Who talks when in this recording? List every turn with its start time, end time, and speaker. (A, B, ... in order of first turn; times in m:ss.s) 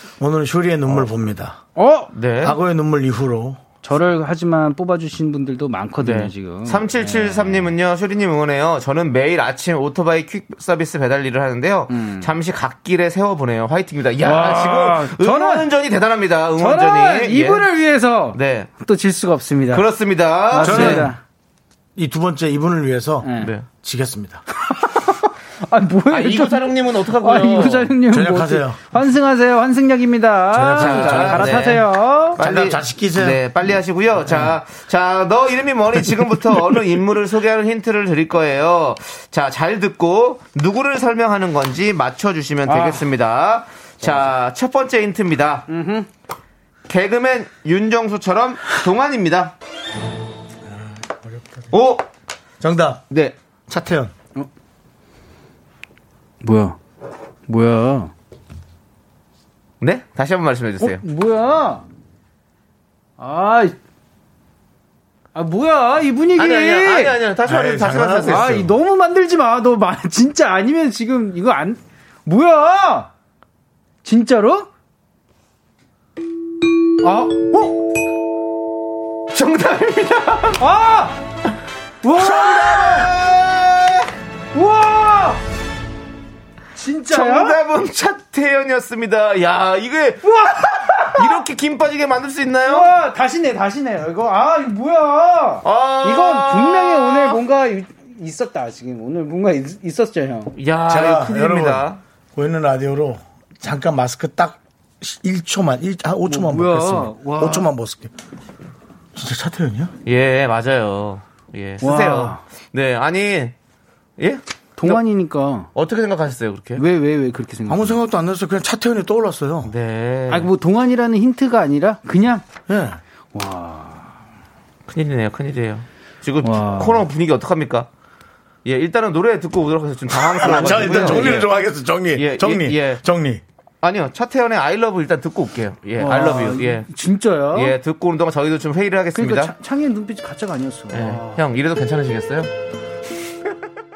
0:00.2-0:01.6 A
0:01.8-0:02.1 B
0:02.1-0:02.6 C
0:02.4-0:03.6 A
0:03.8-0:07.7 B
0:06.0-0:17.7 C
0:11.9-0:12.3 B
0:14.2-0:15.7 B
0:16.6-0:19.9 B
0:18.3-0:18.7 C
0:19.7-0:21.1 C
0:20.5-0:21.2 B
0:20.6-0:21.1 A
0:22.0-0:24.4 A
0:23.2-0:23.5 B
0:23.4-0:23.6 C
0:24.6-0:32.4 B
0:26.1-0:27.9 C
0:28.1-0:28.8 A
0:30.5-0:33.4 A
0:30.7-0:45.7 C
0:42.6-0:43.0 B
0:45.7-0:46.1 B
0:46.9-0:49.5 C
0:51.0-0:51.7 A
0:51.7-0:52.0 C
0:52.6-0:53.0 A
0:53.1-0:53.4 C
0:53.7-0:54.1 A
0:56.4-0:56.8 B
0:57.5-0:58.1 B
0:59.8-1:01.0 C
1:00.8-1:01.8 B
1:03.2-1:03.8 B
1:05.3-1:07.2 B
1:06.4-1:08.6 C
1:07.4-1:08.7 A
1:08.3-1:13.1 B
1:14.0-1:14.7 B
1:17.0-1:17.8 B
1:19.3-1:20.6 C
1:20.6-1:21.2 B
1:22.0-1:23.1 B
1:22.1-1:24.1 C
1:24.5-1:25.4 B
1:26.7-1:27.6 B
1:27.1-1:32.9 C
1:30.2-1:31.4 B
1:32.6-1:40.5 B
1:35.6-1:37.4 C
1:40.5-1:42.0 C
1:40.9-1:48.1 A
1:46.2-1:47.7 B
1:49.1-1:49.9 A
1:50.0-1:53.5 C
1:51.8-1:52.4 B
1:54.2-1:55.0 C
1:54.8-1:55.7 B
1:55.7-1:56.8 C
1:56.8-1:58.0 B
1:57.7-1:59.7 A
1:59.6-2:00.5 C
2:00.3-2:02.4 B
2:02.7-2:03.0 A
2:03.3-2:04.1 B
2:04.9-2:07.9 C
2:06.4-2:07.0 B
2:08.6-2:11.5 C
2:10.4-2:13.4 A
2:10.5-2:11.4 B
2:12.1-2:13.0 C
2:13.8-2:16.9 C
2:16.0-2:17.8 B
2:17.5-2:19.5 C
2:19.1-2:21.4 B
2:20.9-2:22.5 C